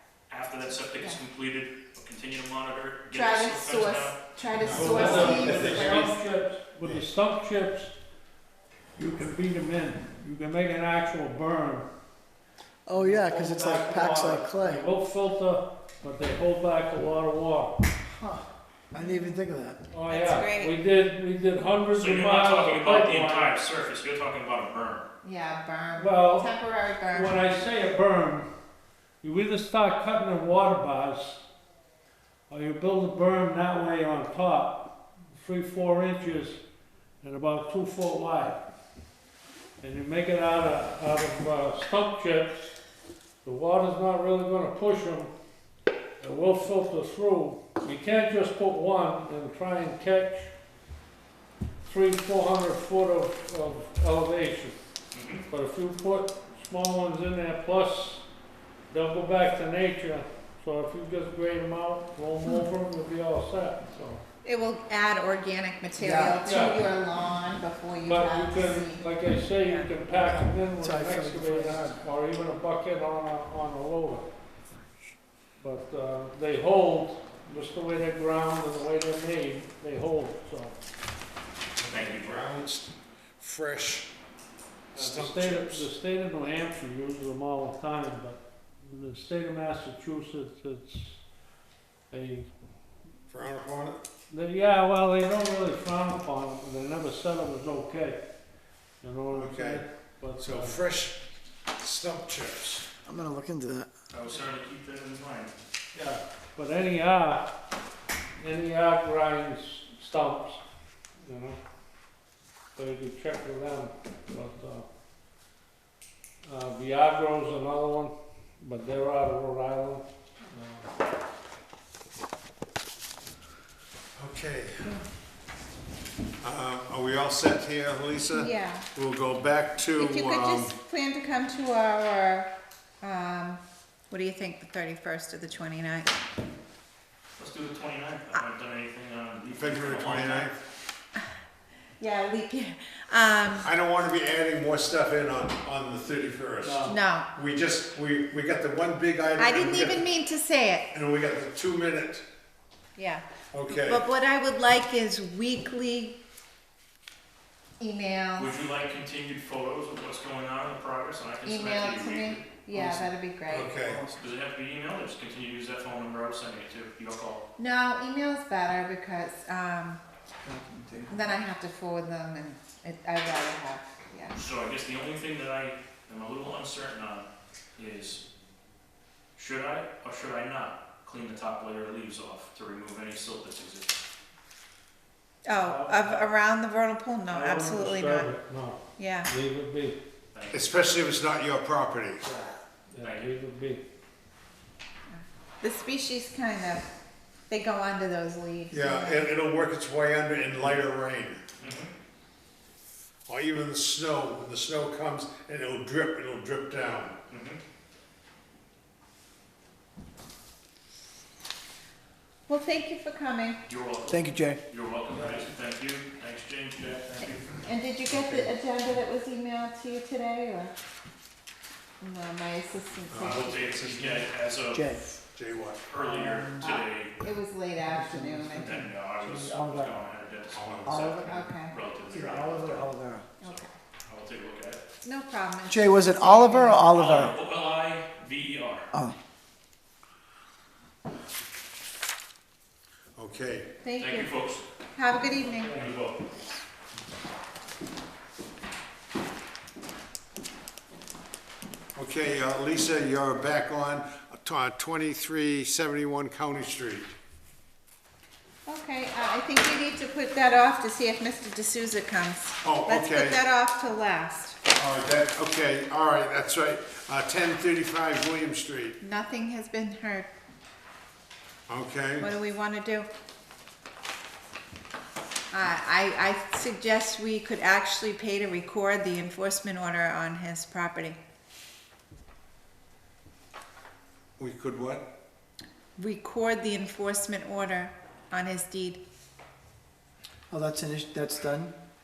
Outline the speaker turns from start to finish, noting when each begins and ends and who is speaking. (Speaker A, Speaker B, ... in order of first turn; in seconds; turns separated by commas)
Speaker A: 0.3-5.7, Speaker B: 3.1-6.1, Speaker C: 4.6-6.2, Speaker D: 4.7-7.9, Speaker C: 6.8-7.1, Speaker D: 9.0-11.9, Speaker E: 12.9-14.8, Speaker D: 12.9-17.8, Speaker E: 18.1-19.9, Speaker B: 19.0-19.4, Speaker D: 19.9-23.5, Speaker B: 20.1-20.8, Speaker A: 21.9-25.1, Speaker B: 25.2-27.5, Speaker D: 25.9-26.5, Speaker D: 27.1-28.4, Speaker D: 29.2-31.4, Speaker D: 32.5-36.6, Speaker D: 37.2-38.6, Speaker D: 39.8-42.7, Speaker D: 43.4-45.3, Speaker D: 46.2-50.5, Speaker D: 51.8-54.8, Speaker A: 55.1-55.5, Speaker D: 55.5-58.2, Speaker D: 58.9-64.2, Speaker B: 64.4-69.1, Speaker E: 66.0-66.5, Speaker D: 66.4-66.9, Speaker D: 68.0-74.3, Speaker E: 70.2-72.0, Speaker D: 75.6-80.8, Speaker C: 81.8-84.1, Speaker A: 81.8-82.5, Speaker C: 84.9-85.9, Speaker D: 84.9-91.2, Speaker D: 92.1-92.5, Speaker C: 93.3-94.0, Speaker D: 94.3-98.2, Speaker D: 99.0-100.8, Speaker C: 99.3-99.9, Speaker C: 100.4-102.9, Speaker E: 103.0-103.9, Speaker A: 104.1-105.5, Speaker D: 105.9-107.4, Speaker D: 108.4-110.6, Speaker D: 111.2-111.6, Speaker D: 112.8-114.9, Speaker D: 116.5-120.9, Speaker C: 124.2-125.0, Speaker C: 126.4-130.7, Speaker B: 128.3-128.9, Speaker B: 130.0-136.1, Speaker A: 137.4-140.5, Speaker C: 139.5-140.6, Speaker B: 142.0-143.7, Speaker C: 143.6-150.1, Speaker D: 146.6-147.0, Speaker B: 146.8-147.3, Speaker B: 149.4-150.9, Speaker C: 150.9-152.2, Speaker B: 153.0-156.2, Speaker C: 153.5-154.0, Speaker B: 157.8-158.5, Speaker A: 158.4-162.4, Speaker B: 161.4-163.8, Speaker E: 162.7-163.1, Speaker C: 163.5-164.0, Speaker E: 163.8-164.2, Speaker A: 164.1-167.4, Speaker B: 167.6-170.0, Speaker E: 170.4-171.1, Speaker B: 171.1-174.3, Speaker A: 174.3-178.2, Speaker A: 179.3-184.0, Speaker B: 185.5-188.3, Speaker D: 185.6-186.2, Speaker D: 187.3-190.0, Speaker B: 189.0-189.3, Speaker A: 190.3-190.7, Speaker C: 190.5-192.3, Speaker D: 192.2-193.8, Speaker A: 193.0-193.3, Speaker B: 195.1-196.8, Speaker B: 197.5-199.3, Speaker C: 198.7-201.4, Speaker A: 201.6-201.9, Speaker C: 203.3-207.2, Speaker A: 207.3-207.6, Speaker B: 212.5-213.6, Speaker A: 213.7-217.7, Speaker E: 214.1-214.6, Speaker B: 217.7-220.7, Speaker C: 218.1-218.5, Speaker B: 222.0-223.7, Speaker C: 223.1-224.2, Speaker A: 223.2-224.9, Speaker E: 224.7-225.2, Speaker C: 225.3-225.8, Speaker A: 225.9-227.2, Speaker E: 226.0-226.7, Speaker B: 226.6-228.8, Speaker E: 227.9-230.0, Speaker A: 228.5-234.8, Speaker C: 230.5-231.2, Speaker E: 230.8-231.4, Speaker B: 231.2-231.8, Speaker E: 232.1-233.3, Speaker B: 233.4-233.7, Speaker B: 235.0-236.9, Speaker E: 235.7-237.4, Speaker A: 236.9-238.9, Speaker C: 243.2-243.7, Speaker B: 243.8-244.3, Speaker A: 244.0-244.7, Speaker B: 244.9-245.8, Speaker D: 245.4-245.9, Speaker A: 245.7-246.2, Speaker C: 252.0-257.1, Speaker B: 258.7-264.6, Speaker C: 262.6-263.4, Speaker C: 264.7-269.0, Speaker B: 269.0-270.3, Speaker C: 271.7-272.3, Speaker B: 272.2-273.1, Speaker B: 275.5-281.2, Speaker C: 284.4-285.1, Speaker B: 286.0-289.0, Speaker E: 290.5-291.7